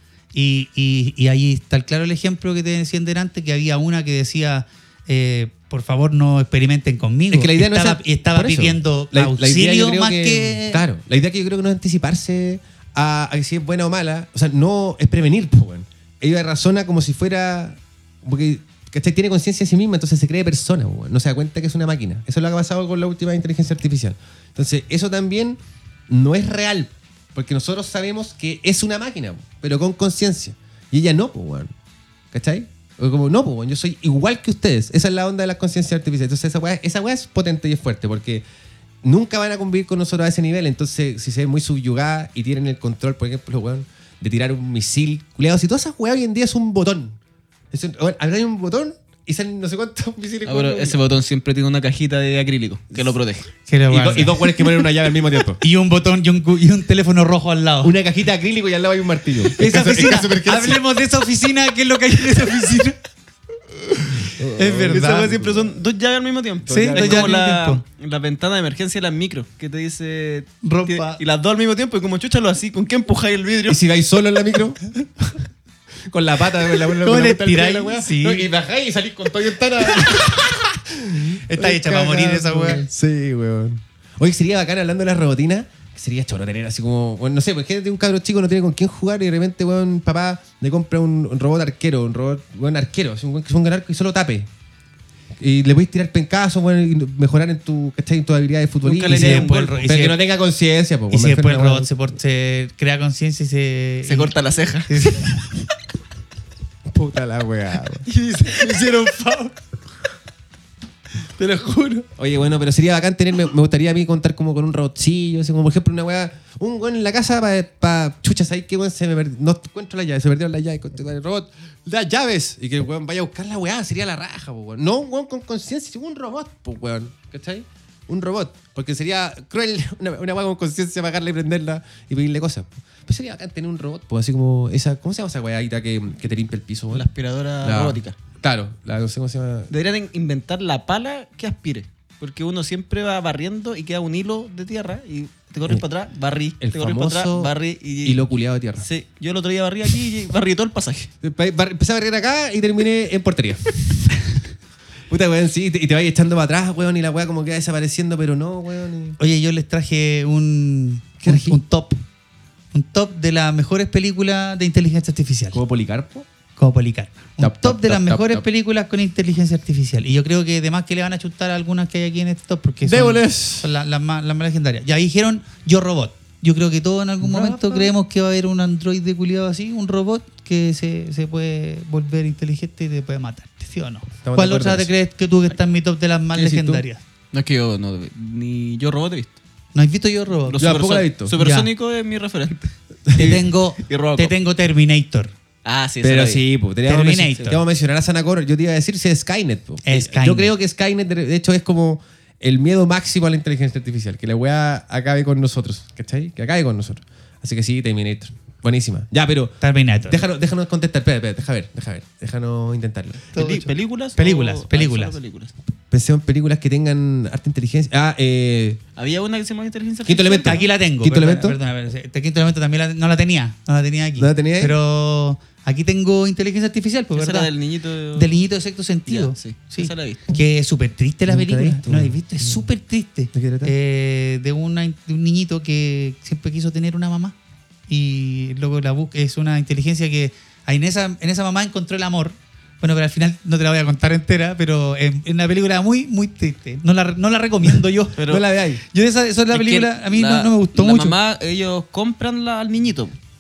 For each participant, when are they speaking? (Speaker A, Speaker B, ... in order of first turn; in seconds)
Speaker A: 0.3-10.8, 53.7-54.7, 55.6-57.9, 59.5-63.0, 63.9-65.3, 66.7-67.8, 70.6-71.2, 77.0-78.5, 81.4-82.8, 99.0-100.2, 101.1-104.3, 104.9-105.5, 108.1-109.5, 111.4-112.0, 159.2-162.0, 162.7-165.6, 166.6-187.0, 189.7-190.6, 191.3-191.7, 193.2-195.3, 196.8-197.6, 199.8-200.5, 209.6-210.2, 213.3-215.2, 220.4-227.5, 228.1-237.3, 237.9-248.2, 248.9-251.1
Speaker B: 7.3-31.7, 32.3-38.4, 39.0-47.2, 47.7-51.0, 53.9-55.6, 57.8-60.8, 64.3-65.8, 66.7-67.3, 73.7-74.8, 76.1-94.5, 95.4-101.9, 106.9-108.0, 112.1-137.1, 137.6-139.7, 146.6-148.8, 151.2-154.2, 155.1-159.2, 161.2-161.6, 165.5-166.2, 167.4-168.4, 172.8-173.7, 177.2-177.9, 184.2-184.9, 186.3-186.8, 190.6-191.3, 193.1-193.3, 196.0-213.2, 215.9-218.8, 220.1-221.6, 224.2-224.7, 231.3-232.6, 233.3-233.7, 248.3-248.8
Speaker C: 50.4-53.5, 64.8-73.8, 98.8-99.9, 104.0-104.9, 136.9-138.2, 139.7-148.2, 148.8-151.1, 187.3-189.3, 190.5-194.3, 195.6-196.4, 213.3-215.5, 218.9-220.6, 227.1-228.3, 229.1-230.2, 248.2-248.4, 249.5-253.2